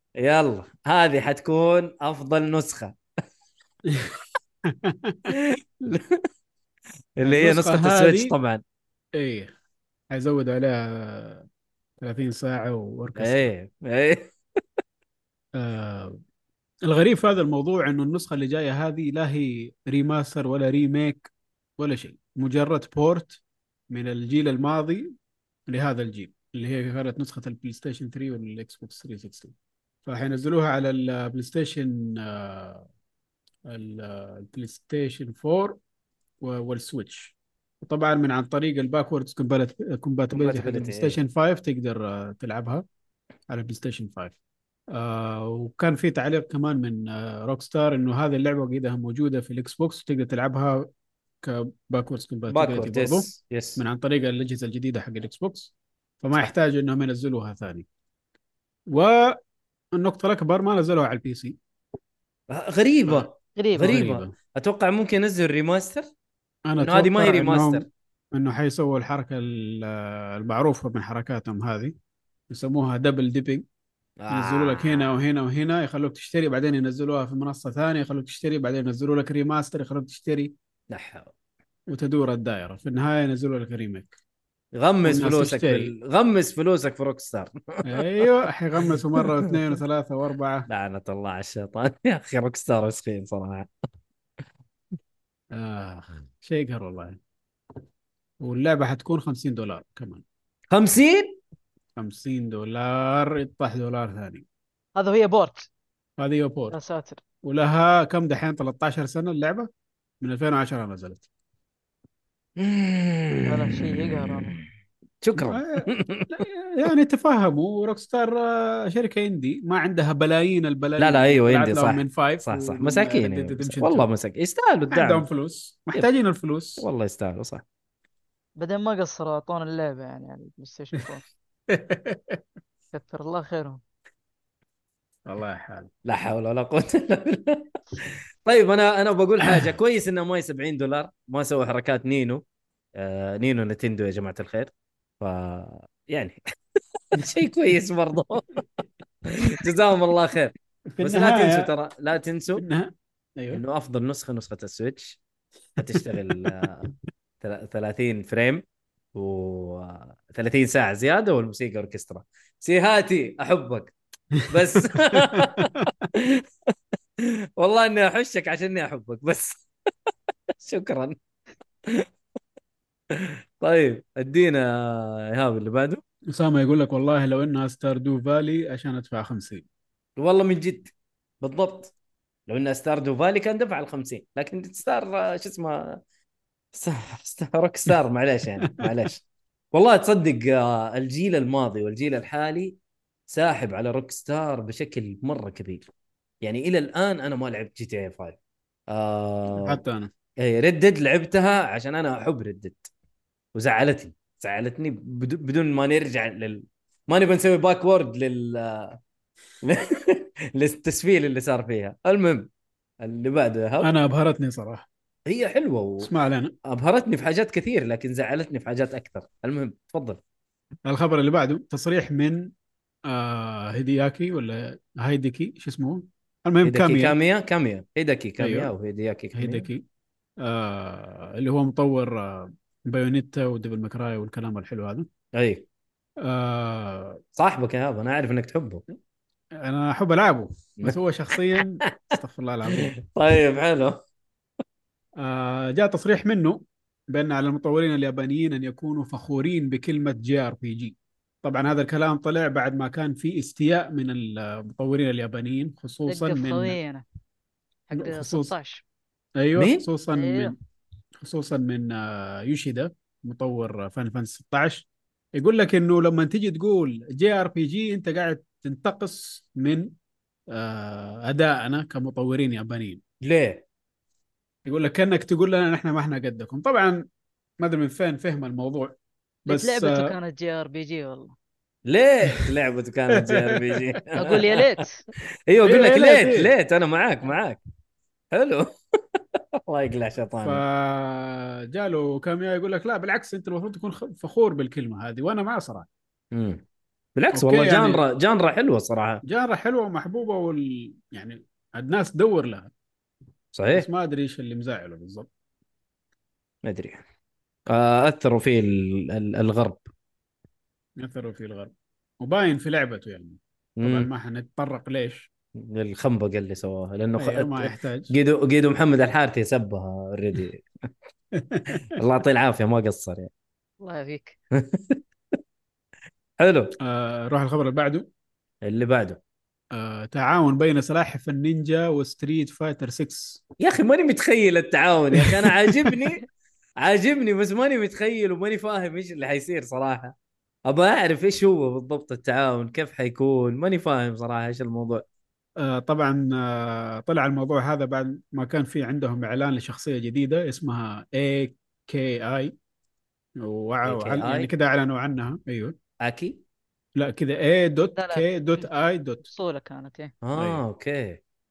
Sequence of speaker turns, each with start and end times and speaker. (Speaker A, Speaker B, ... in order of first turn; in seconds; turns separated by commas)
Speaker A: 0.1-3.0, Speaker B: 3.9-4.2, Speaker B: 4.7-5.3, Speaker A: 5.3-6.3, Speaker A: 7.2-8.6, Speaker B: 7.2-8.3, Speaker B: 9.2-9.5, Speaker B: 10.1-11.4, Speaker B: 12.0-13.5, Speaker A: 13.2-14.3, Speaker B: 15.5-16.2, Speaker B: 16.9-25.1, Speaker B: 25.7-29.5, Speaker B: 30.1-32.9, Speaker B: 33.7-35.8, Speaker B: 36.4-42.8, Speaker A: 40.3-41.2, Speaker B: 43.5-44.3, Speaker B: 44.9-50.9, Speaker B: 51.4-53.2, Speaker A: 52.5-53.8, Speaker B: 53.8-57.9, Speaker B: 58.9-59.4, Speaker B: 60.0-61.5, Speaker A: 62.5-66.1, Speaker B: 63.0-64.3, Speaker C: 63.5-64.1, Speaker B: 66.7-71.9, Speaker A: 66.8-67.8, Speaker B: 72.5-73.6, Speaker A: 74.2-75.0, Speaker B: 74.3-80.5, Speaker A: 80.9-81.3, Speaker B: 81.9-84.2, Speaker A: 84.7-88.2, Speaker B: 85.0-85.9, Speaker B: 87.8-90.7, Speaker A: 90.7-93.7, Speaker B: 95.5-97.2, Speaker B: 98.4-100.2, Speaker A: 100.7-101.4, Speaker B: 102.0-104.4, Speaker C: 105.0-105.7, Speaker B: 106.2-106.8, Speaker C: 106.7-107.2, Speaker B: 107.4-109.7, Speaker B: 110.2-111.2, Speaker A: 112.6-114.6, Speaker C: 113.5-114.6, Speaker A: 115.2-116.4, Speaker B: 115.4-124.1, Speaker A: 121.0-125.2, Speaker B: 124.9-126.8, Speaker A: 126.8-127.6, Speaker C: 128.6-131.2, Speaker B: 131.7-132.4, Speaker C: 132.9-133.8, Speaker B: 135.2-135.9, Speaker A: 136.0-142.4, Speaker A: 142.9-148.6, Speaker A: 149.4-152.6, Speaker B: 150.9-151.7, Speaker B: 152.5-153.6, Speaker A: 153.5-155.2, Speaker A: 155.8-158.6, Speaker B: 156.1-156.7, Speaker A: 159.1-163.9, Speaker A: 164.5-171.2, Speaker B: 164.5-165.9, Speaker A: 173.1-176.0, Speaker B: 176.3-179.6, Speaker A: 180.2-181.9, Speaker A: 182.5-186.0, Speaker A: 186.7-192.8, Speaker A: 193.3-195.9, Speaker A: 196.4-198.4, Speaker A: 198.9-199.8, Speaker B: 199.6-200.1, Speaker A: 200.4-202.9, Speaker A: 203.5-209.0, Speaker A: 209.6-212.5, Speaker A: 213.0-213.9, Speaker B: 213.8-214.9, Speaker A: 215.3-216.1, Speaker B: 216.0-216.5, Speaker A: 216.6-220.2, Speaker B: 220.8-222.5, Speaker B: 223.1-227.1, Speaker A: 226.6-229.7, Speaker B: 228.4-228.7, Speaker B: 229.3-229.8, Speaker B: 230.4-235.1, Speaker A: 235.3-235.7, Speaker B: 236.2-237.2, Speaker A: 237.3-238.8, Speaker B: 239.6-242.9, Speaker A: 241.6-242.2, Speaker A: 242.7-244.0, Speaker B: 245.2-256.8, Speaker C: 256.1-257.0, Speaker C: 257.9-258.8, Speaker B: 257.9-258.5, Speaker B: 259.4-260.5, Speaker A: 259.6-259.8, Speaker C: 260.1-260.5, Speaker B: 261.2-269.9, Speaker B: 270.5-273.0, Speaker A: 273.2-273.6, Speaker B: 274.6-277.1, Speaker B: 277.6-278.9, Speaker B: 279.4-280.1, Speaker C: 279.5-281.3, Speaker A: 281.9-284.7, Speaker B: 283.3-284.4, Speaker C: 284.1-285.0, Speaker A: 285.5-287.6, Speaker B: 285.6-286.5, Speaker A: 288.3-290.6, Speaker B: 290.4-295.9, Speaker A: 296.3-296.6, Speaker A: 297.1-299.2, Speaker B: 297.3-298.0, Speaker B: 299.2-302.7, Speaker A: 303.5-303.9, Speaker B: 303.7-305.3, Speaker A: 306.6-307.0, Speaker A: 307.7-309.8, Speaker B: 311.0-315.3, Speaker A: 313.8-314.1, Speaker A: 315.6-320.9, Speaker B: 317.2-318.1, Speaker B: 321.3-322.0, Speaker A: 321.9-323.3, Speaker C: 323.8-324.4, Speaker A: 324.5-325.0, Speaker A: 326.4-326.7, Speaker B: 326.8-328.1, Speaker A: 328.6-329.2, Speaker B: 329.7-333.4, Speaker A: 333.6-336.2, Speaker B: 335.2-335.9, Speaker A: 336.8-340.1, Speaker A: 340.7-345.0, Speaker B: 345.6-352.5, Speaker B: 353.4-355.7, Speaker A: 353.8-354.5, Speaker A: 356.0-356.4, Speaker B: 356.9-359.3, Speaker C: 357.9-358.7, Speaker C: 359.2-360.1, Speaker A: 360.2-361.2